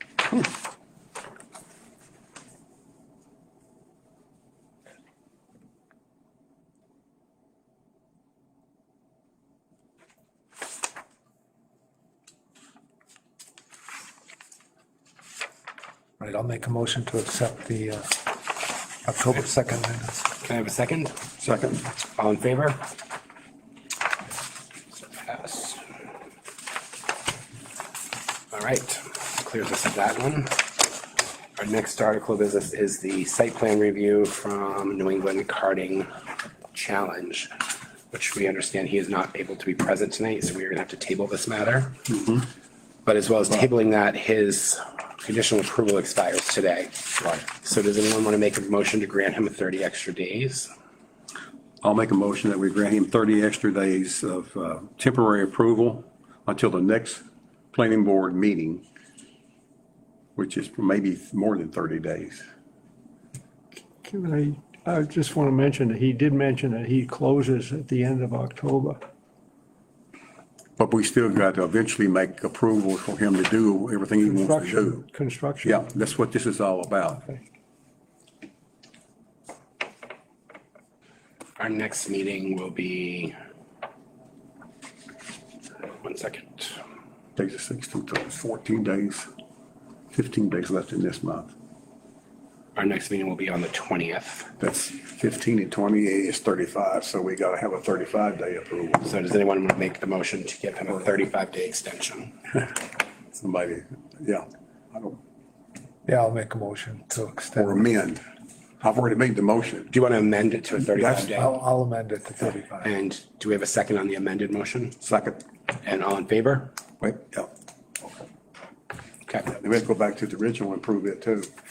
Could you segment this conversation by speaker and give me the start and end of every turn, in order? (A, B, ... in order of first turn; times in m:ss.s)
0:16.2-0:18.2 A
0:19.0-0:20.2 A
0:20.4-0:21.2 B
0:21.4-0:21.8 C
0:22.2-0:22.8 B
0:24.9-0:25.8 B
0:28.5-0:30.6 B
0:31.6-0:36.1 B
0:36.7-0:37.5 B
0:38.1-0:42.0 B
0:42.1-0:42.4 C
0:43.0-0:50.7 B
0:51.8-0:58.8 C
1:00.4-1:02.4 C
1:04.0-1:09.0 D
1:10.8-1:15.1 C
1:14.2-1:15.8 D
1:15.6-1:17.4 C
1:21.6-1:23.3 B
1:26.0-1:26.8 B
1:27.4-1:29.3 C
1:30.1-1:31.5 C
1:32.8-1:34.5 B
1:34.6-1:39.0 C
1:39.0-1:42.4 B
1:43.3-1:45.2 C
1:46.1-1:47.9 A
1:47.6-1:48.2 C
1:48.8-1:49.9 C
1:49.9-1:51.6 B
1:50.9-1:51.3 C
1:51.3-1:52.9 A
1:52.8-1:55.0 B
1:55.0-1:55.4 C
1:55.8-1:56.8 B
1:57.0-1:57.5 C
1:59.5-2:01.5 C